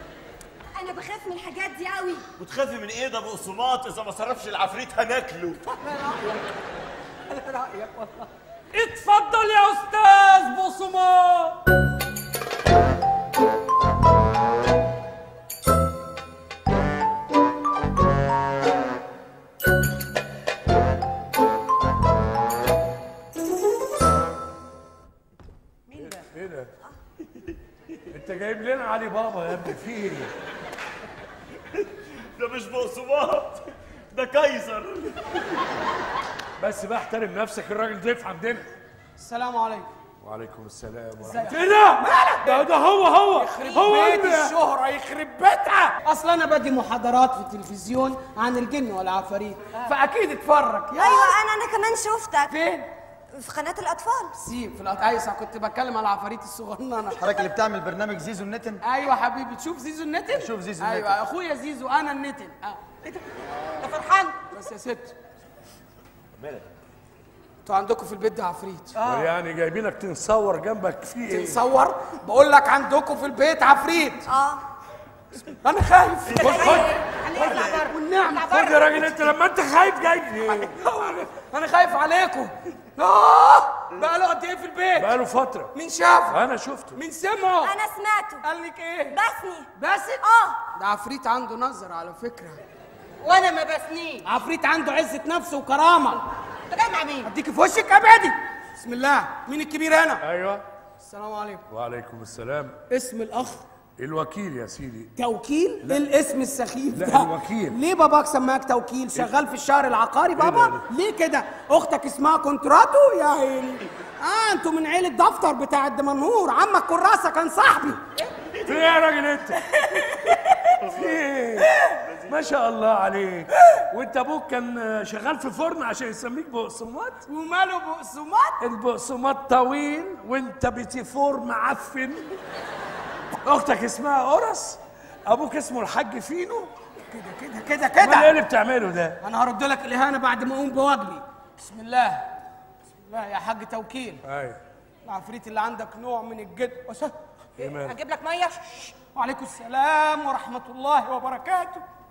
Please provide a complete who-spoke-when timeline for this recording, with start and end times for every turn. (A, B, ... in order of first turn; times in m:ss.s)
0:00.7-0:02.2 A
0:02.4-0:05.6 B
0:05.7-0:06.4 C
0:07.3-0:08.3 C
0:08.7-0:11.6 D
0:25.9-0:26.2 C
0:25.9-0:26.7 E
0:28.1-0:30.3 E
0:31.8-0:35.3 B
0:36.6-0:38.7 E
0:39.2-0:39.9 F
0:40.2-0:44.6 E
0:41.2-0:41.7 F
0:41.8-0:42.6 C
0:43.3-0:51.4 F
0:50.9-0:52.5 A
0:52.5-0:52.9 F
0:53.3-0:54.3 A
0:54.3-0:57.2 F
0:57.2-0:58.8 G
0:58.8-1:02.8 F
1:00.3-1:01.2 G
1:03.8-1:04.4 C
1:04.5-1:05.2 F
1:06.4-1:06.7 B
1:07.6-1:08.9 F
1:09.0-1:09.3 C
1:09.0-1:11.6 E
1:11.3-1:14.3 F
1:14.3-1:14.6 A
1:15.6-1:16.8 F
1:16.4-1:16.9 E
1:16.4-1:19.0 C
1:17.3-1:17.8 B
1:17.4-1:18.7 F
1:18.4-1:20.8 E
1:20.7-1:25.1 F
1:25.0-1:25.7 E
1:25.7-1:26.4 F
1:26.3-1:27.0 E
1:26.9-1:27.7 F
1:27.6-1:28.4 A
1:28.4-1:29.2 F
1:29.1-1:29.7 A
1:29.8-1:30.2 F
1:30.2-1:30.6 A
1:30.7-1:32.6 F
1:33.2-1:34.2 C
1:34.2-1:36.2 F
1:36.7-1:37.3 C
1:37.2-1:40.2 F
1:40.2-1:40.6 E
1:41.0-1:41.6 F
1:41.7-1:42.8 E
1:42.9-1:43.6 F
1:44.0-1:45.1 E
1:45.2-1:58.0 F
1:46.9-1:47.8 E
1:50.4-1:50.8 E
1:58.5-1:58.8 B
1:58.6-2:07.2 E
1:59.9-2:00.3 F
2:00.8-2:02.5 B
2:07.3-2:08.6 F
2:08.6-2:12.4 E
2:13.4-2:16.7 E
2:17.1-2:18.3 F
2:18.0-2:19.2 E
2:19.2-2:22.3 F
2:23.0-2:24.2 F
2:24.2-2:24.6 E
2:25.0-2:27.1 F
2:27.6-2:28.0 E
2:27.6-2:28.9 C
2:29.1-2:31.8 F